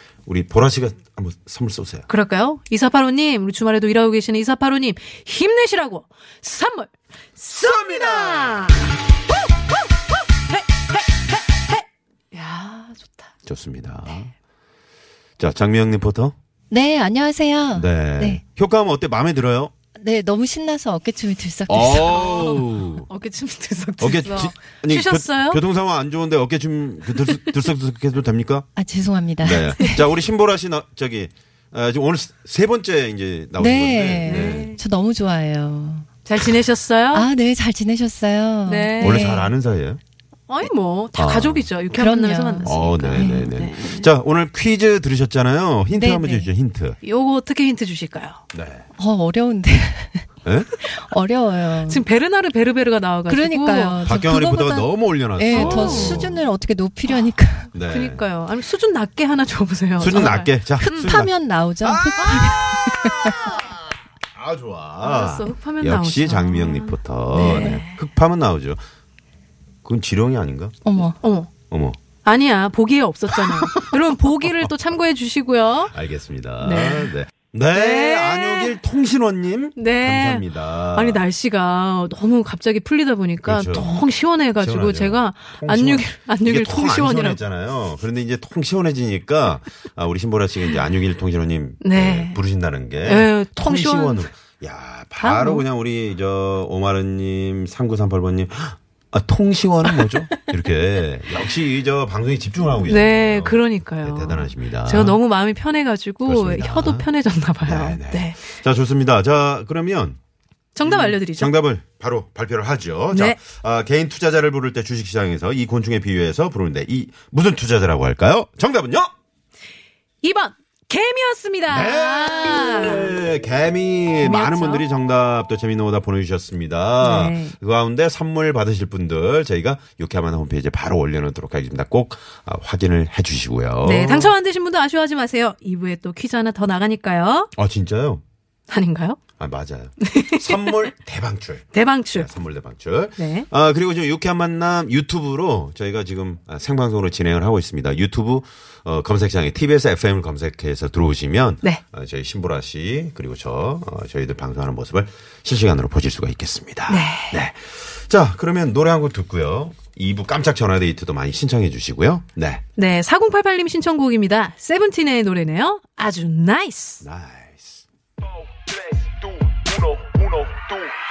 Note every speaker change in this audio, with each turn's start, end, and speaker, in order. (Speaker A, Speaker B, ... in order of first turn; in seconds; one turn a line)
Speaker A: 0.3-2.1
Speaker B: 2.1-8.9
Speaker A: 7.5-8.9
Speaker B: 10.5-13.3
Speaker A: 13.4-14.3
Speaker A: 15.4-16.4
Speaker C: 16.7-18.4
Speaker A: 17.8-19.8
Speaker C: 19.9-22.3
Speaker A: 21.7-23.1
Speaker B: 22.1-25.6
Speaker A: 24.0-28.7
Speaker B: 27.3-27.5
Speaker C: 28.8-30.0
Speaker A: 29.4-34.7
Speaker B: 29.5-30.0
Speaker C: 33.6-36.1
Speaker B: 34.2-34.8
Speaker B: 36.3-37.3
Speaker C: 37.1-39.5
Speaker B: 38.6-39.4
Speaker A: 39.0-40.0
Speaker B: 40.5-44.1
Speaker A: 41.2-41.7
Speaker C: 41.9-43.5
Speaker A: 42.6-47.0
Speaker C: 45.9-46.5
Speaker B: 47.0-48.4
Speaker A: 48.5-48.9
Speaker C: 49.0-50.3
Speaker A: 50.4-50.7
Speaker C: 50.9-52.0
Speaker B: 51.9-54.1
Speaker C: 53.3-57.7
Speaker A: 54.0-56.4
Speaker B: 55.5-56.3
Speaker A: 57.7-58.2
Speaker B: 57.9-61.1
Speaker A: 60.0-68.8
Speaker C: 60.8-63.5
Speaker B: 65.0-68.0
Speaker C: 67.3-67.8
Speaker A: 69.8-70.8
Speaker C: 70.8-71.2
Speaker B: 71.2-71.5
Speaker A: 71.7-72.0
Speaker B: 72.2-75.9
Speaker A: 73.3-74.7
Speaker A: 75.9-81.2
Speaker B: 76.6-77.1
Speaker B: 77.7-78.8
Speaker B: 79.8-87.4
Speaker A: 83.4-84.0
Speaker A: 84.6-105.2
Speaker B: 91.8-92.4
Speaker B: 93.0-94.3
Speaker B: 95.2-95.6
Speaker B: 102.9-108.4
Speaker A: 106.3-107.1
Speaker A: 107.6-110.2
Speaker B: 110.8-111.5
Speaker A: 110.8-119.1
Speaker B: 113.1-113.4
Speaker B: 120.2-123.1
Speaker A: 121.7-134.3
Speaker B: 124.2-124.8
Speaker B: 127.0-127.5
Speaker B: 133.8-137.5
Speaker A: 137.6-138.2
Speaker B: 138.7-139.2
Speaker A: 139.4-162.6
Speaker B: 140.0-140.8
Speaker B: 141.7-142.3
Speaker B: 143.2-143.5
Speaker B: 156.9-157.4
Speaker B: 162.8-167.0
Speaker A: 167.0-167.8
Speaker A: 168.7-170.9